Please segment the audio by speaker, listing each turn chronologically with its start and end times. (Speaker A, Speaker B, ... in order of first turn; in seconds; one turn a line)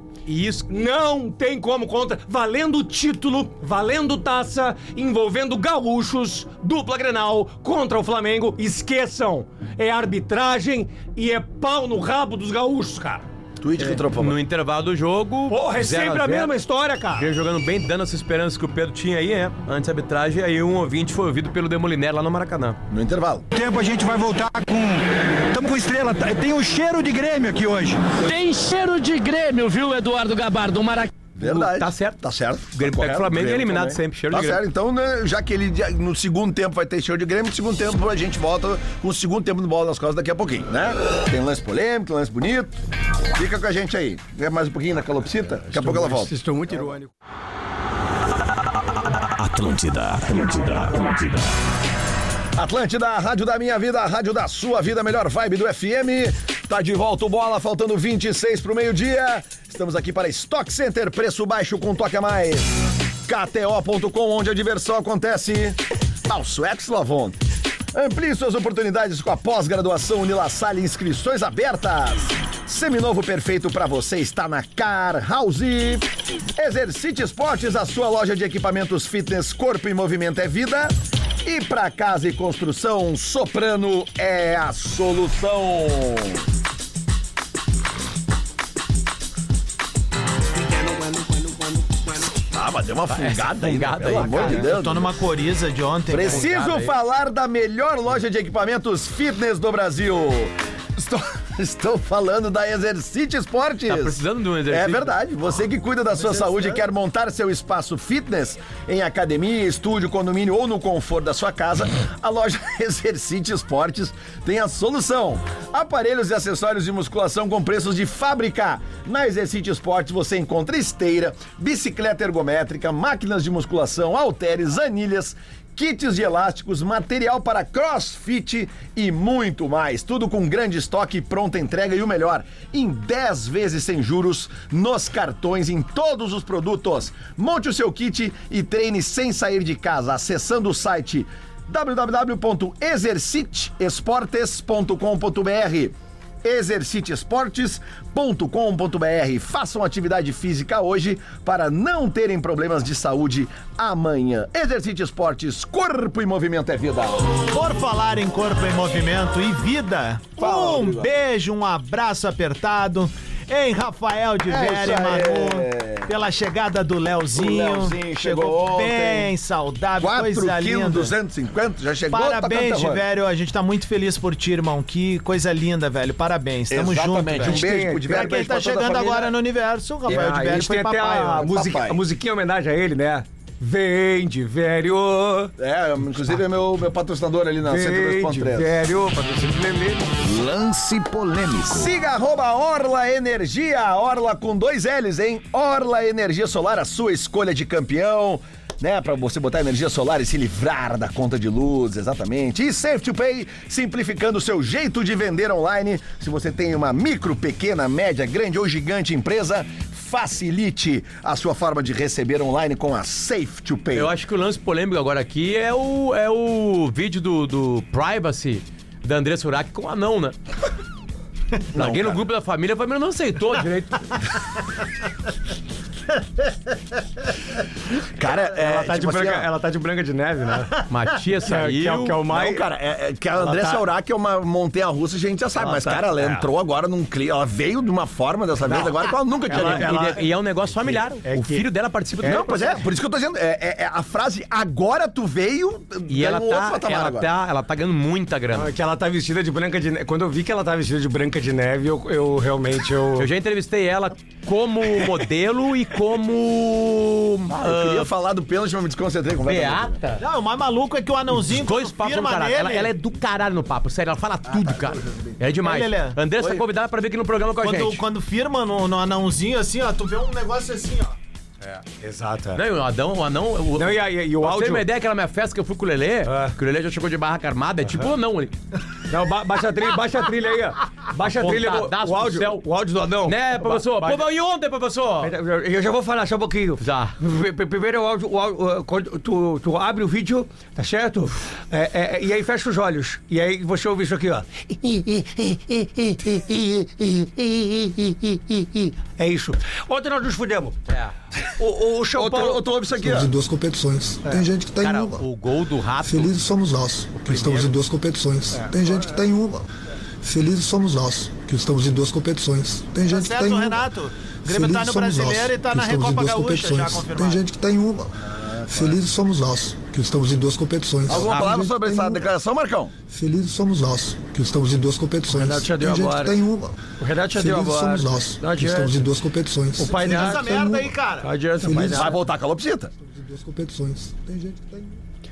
Speaker A: 0.3-0.7
Speaker B: 0.7-13.2
Speaker C: 13.6-14.4
Speaker A: 14.2-16.5
Speaker B: 15.5-17.3
Speaker A: 17.1-22.8
Speaker C: 22.9-23.4
Speaker D: 23.5-28.1
Speaker E: 28.2-31.1
Speaker C: 31.4-42.8
Speaker A: 31.4-32.2
Speaker A: 32.7-34.6
Speaker C: 43.4-46.9
Speaker B: 45.7-47.1
Speaker F: 48.5-51.5
Speaker C: 52.6-62.7
Speaker C: 63.3-67.4
Speaker C: 67.9-80.9
Speaker C: 81.4-86.4
Speaker C: 92.5-95.1
Speaker A: 93.1-94.7
Speaker G: 94.2-96.7
Speaker C: 96.1-157.2
Speaker A: 96.3-96.9
Speaker A: 103.9-105.1
Speaker G: 157.5-171.1
Speaker C: 160.4-161.1
Speaker C: 164.5-166.1
Speaker C: 167.3-169.3
Speaker C: 170.0-173.0
Speaker G: 172.1-181.5
Speaker C: 176.7-179.3
Speaker B: 177.4-178.0
Speaker B: 180.1-185.5
Speaker C: 181.3-182.0
Speaker C: 185.6-188.7
Speaker B: 187.6-190.1
Speaker C: 190.2-214.1
Speaker A: 213.9-220.3
Speaker C: 221.7-222.2
Speaker A: 221.7-224.1
Speaker C: 228.2-229.5
Speaker B: 228.5-230.8
Speaker A: 230.9-232.2
Speaker B: 231.4-232.6
Speaker C: 232.3-240.2
Speaker B: 233.4-233.8
Speaker B: 235.6-236.5
Speaker B: 238.7-241.6
Speaker A: 239.5-242.6
Speaker B: 242.2-242.8
Speaker C: 242.2-247.3
Speaker A: 246.1-248.7
Speaker B: 248.5-253.3
Speaker A: 253.2-258.1
Speaker C: 257.5-260.0
Speaker A: 259.4-260.2
Speaker G: 260.2-262.9
Speaker A: 261.5-268.0
Speaker C: 264.5-265.4
Speaker G: 265.6-266.2
Speaker C: 266.4-266.6
Speaker G: 267.6-271.1
Speaker B: 272.0-272.6
Speaker A: 272.6-278.6
Speaker B: 273.8-274.9
Speaker B: 276.3-276.5
Speaker B: 279.1-284.2
Speaker A: 281.2-282.6
Speaker A: 283.3-285.3
Speaker B: 285.2-300.8
Speaker A: 286.8-287.1
Speaker A: 300.9-301.1
Speaker B: 301.6-302.6
Speaker C: 302.1-303.3
Speaker H: 303.0-305.2
Speaker A: 304.8-306.3
Speaker H: 306.0-309.6
Speaker A: 307.2-307.7
Speaker H: 310.2-313.9
Speaker G: 313.1-317.4
Speaker H: 314.4-322.3
Speaker C: 318.3-318.9
Speaker C: 321.1-322.9
Speaker A: 321.2-321.6
Speaker H: 323.1-326.8
Speaker B: 325.3-326.4
Speaker B: 327.0-329.1
Speaker H: 327.3-330.9
Speaker B: 329.8-330.6
Speaker G: 329.9-331.3
Speaker B: 331.2-332.1
Speaker H: 331.6-332.1
Speaker C: 331.9-332.9
Speaker H: 333.0-335.0